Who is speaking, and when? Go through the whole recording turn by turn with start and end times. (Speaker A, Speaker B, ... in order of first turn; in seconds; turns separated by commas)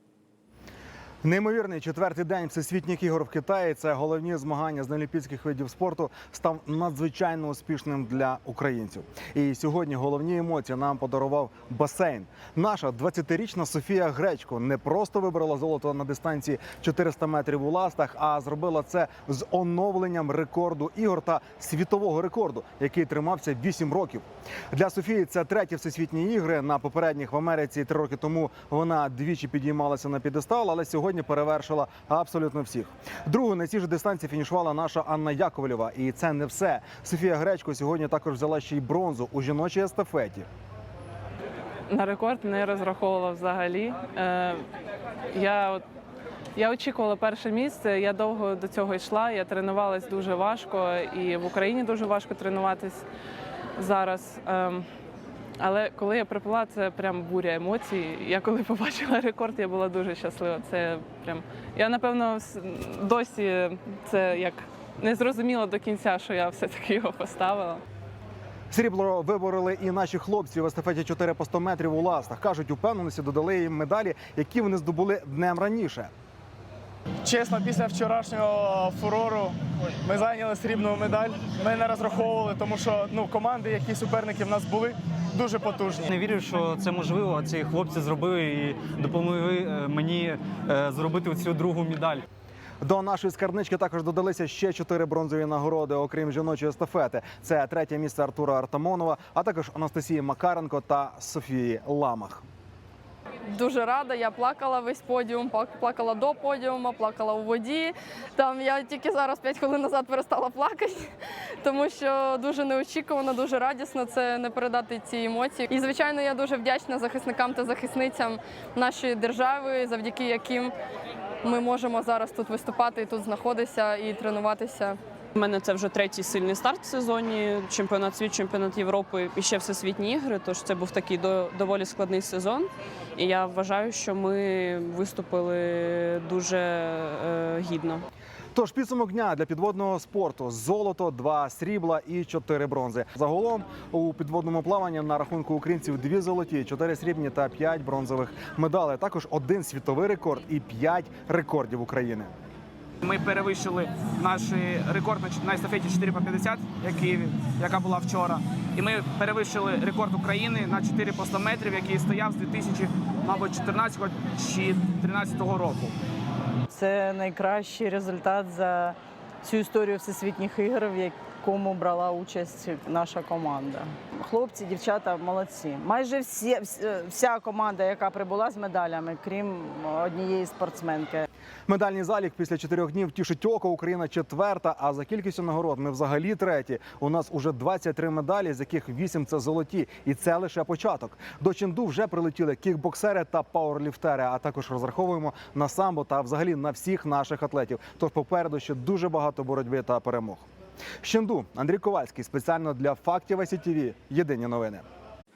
Speaker A: 1.2-40.4, Speaker B: 41.9-44.6, Speaker B: 45.3-45.8, Speaker B: 46.5-53.0, Speaker B: 53.8-54.8, Speaker B: 55.6-67.8, Speaker A: 68.7-76.1, Speaker C: 77.2-79.5, Speaker C: 80.0-86.1, Speaker D: 86.1-92.2, Speaker A: 92.8-102.4, Speaker E: 103.5-111.0, Speaker E: 111.6-120.7, Speaker E: 121.4-125.0, Speaker F: 125.3-138.0, Speaker A: 138.5-152.3, Speaker G: 153.0-165.9, Speaker H: 166.7-181.2, Speaker A: 181.7-200.4, Speaker A: 201.0-204.8